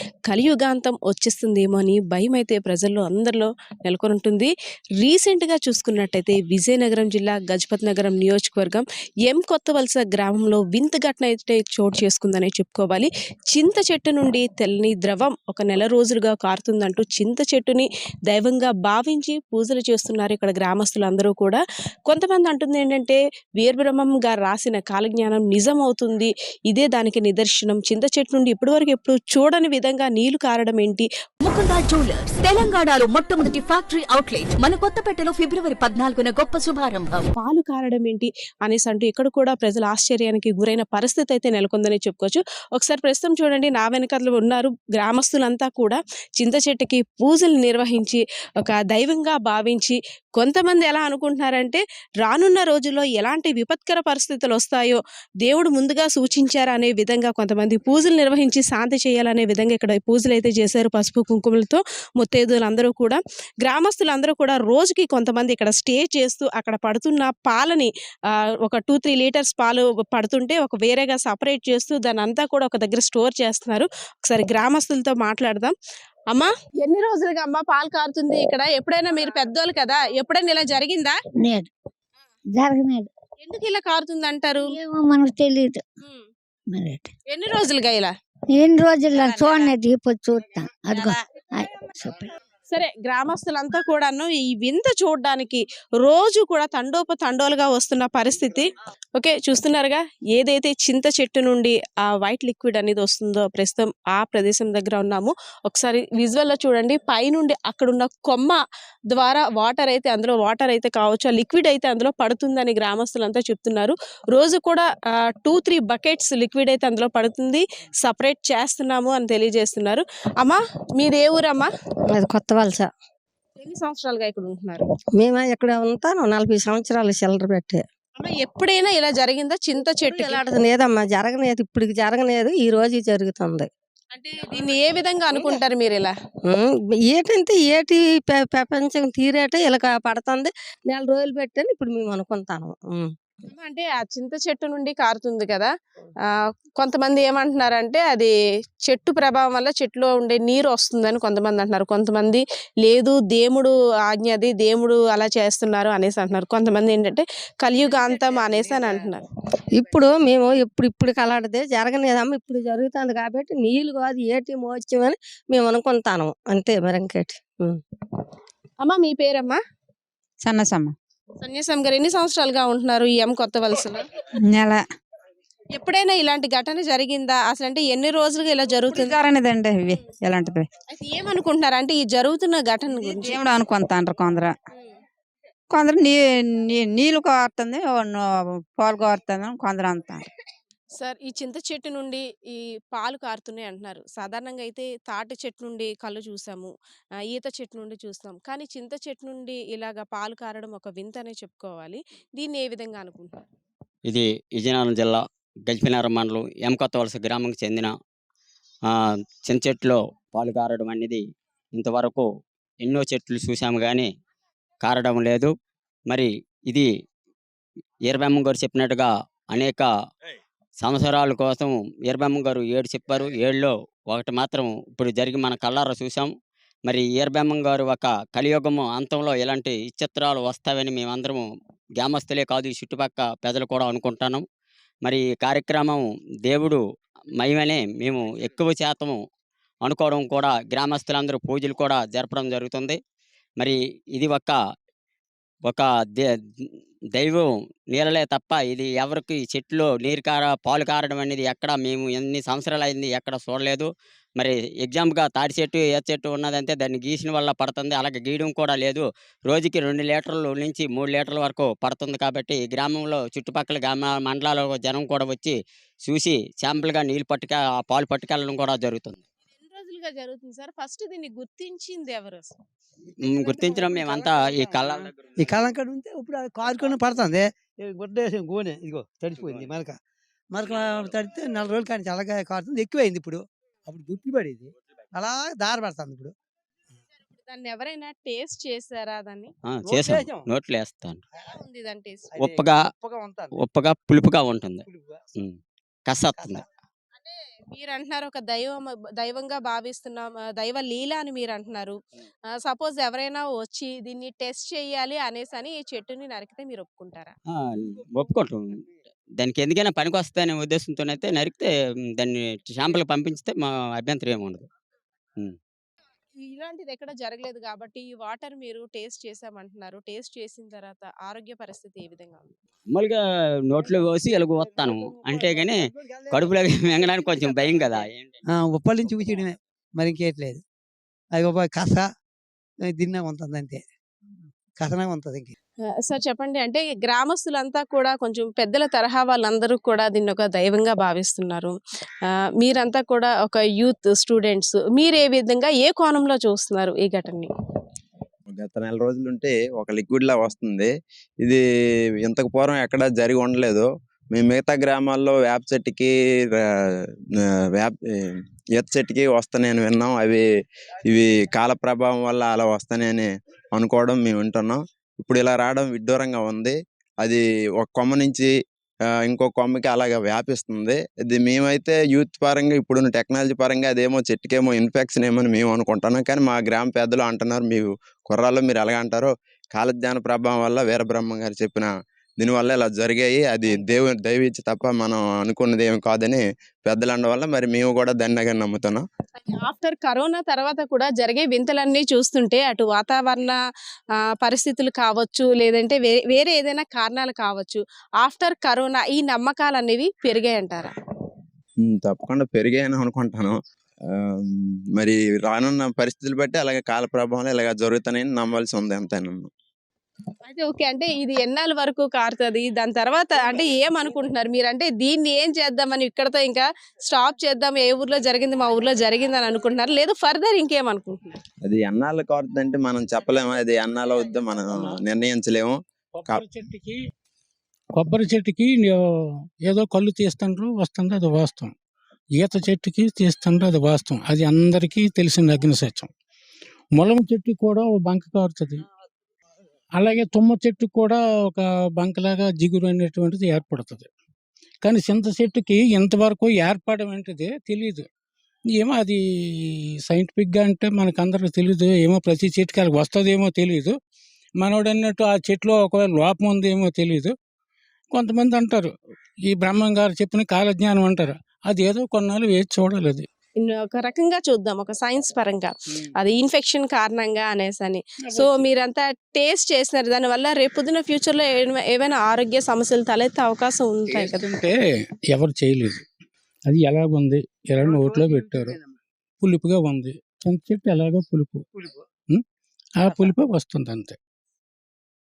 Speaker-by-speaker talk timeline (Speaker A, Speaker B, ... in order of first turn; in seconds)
Speaker A: 0.3-31.1, 37.4-67.9, 68.6-75.7, 76.3-81.1, 83.4-84.8, 86.0-86.3, 87.3-88.1, 92.7-108.6, 109.1-114.8, 115.4-121.7, 123.6-124.8, 128.2-130.4, 134.1-136.1, 143.5-145.7, 146.8-148.3, 148.9-159.2, 168.8-169.6, 171.4-174.0, 175.7-179.2, 180.9-183.4, 191.0-196.7, 197.3-203.4, 269.6-272.5, 287.4-289.5, 291.4-292.3, 297.2-301.9, 302.6-307.3, 316.4-322.6, 336.0-341.8, 342.6-347.5, 389.4-393.6, 394.4-400.9, 410.4-421.4, 463.6-474.4
Speaker B: 31.4-37.3
Speaker C: 81.4-81.7, 82.5-83.1, 84.5-85.8, 86.7-87.1, 88.5-92.3
Speaker D: 89.1-89.7, 170.4-170.9, 174.5-174.8, 178.9-180.7, 183.0-184.5, 185.7-190.3
Speaker E: 122.1-122.9, 125.2-127.8, 130.0-133.7, 136.5-143.1, 159.7-167.8
Speaker F: 204.1-207.9, 209.4-211.2, 211.7-212.2, 212.8-214.1, 214.8-215.5, 216.1-216.9, 218.1-219.9, 220.8-226.3, 226.8-231.4, 232.0-234.4, 235.0-236.8, 237.4-239.2, 239.8-243.0, 243.6-244.6, 245.7-269.2, 273.2-275.1, 289.7-291.2, 292.4-292.8, 293.6-294.8, 296.1-296.6, 307.5-308.7, 309.4-311.7, 312.2-314.6, 322.9-328.4
Speaker G: 273.2-280.0, 280.5-286.3, 289.8-290.5, 292.3-293.6, 294.9-295.2, 296.4-296.6, 324.7-326.5, 328.5-330.6, 331.3-332.0, 332.9-333.8, 334.8-335.5, 477.9-478.8
Speaker H: 348.5-351.6, 352.2-356.6, 357.4-360.4, 361.1-368.5, 369.2-389.0, 401.8-403.6, 404.1-409.5, 421.6-426.4
Speaker I: 426.1-426.9, 427.9-429.0, 429.6-431.7, 432.4-436.1, 436.9-438.8, 439.9-444.1, 444.8-448.0, 448.8-449.2, 450.1-453.9, 454.6-457.3, 458.1-458.9, 459.5-463.2, 468.3-468.6, 474.1-474.7, 475.3-476.0, 476.7-478.8, 479.4-481.6, 483.0-484.1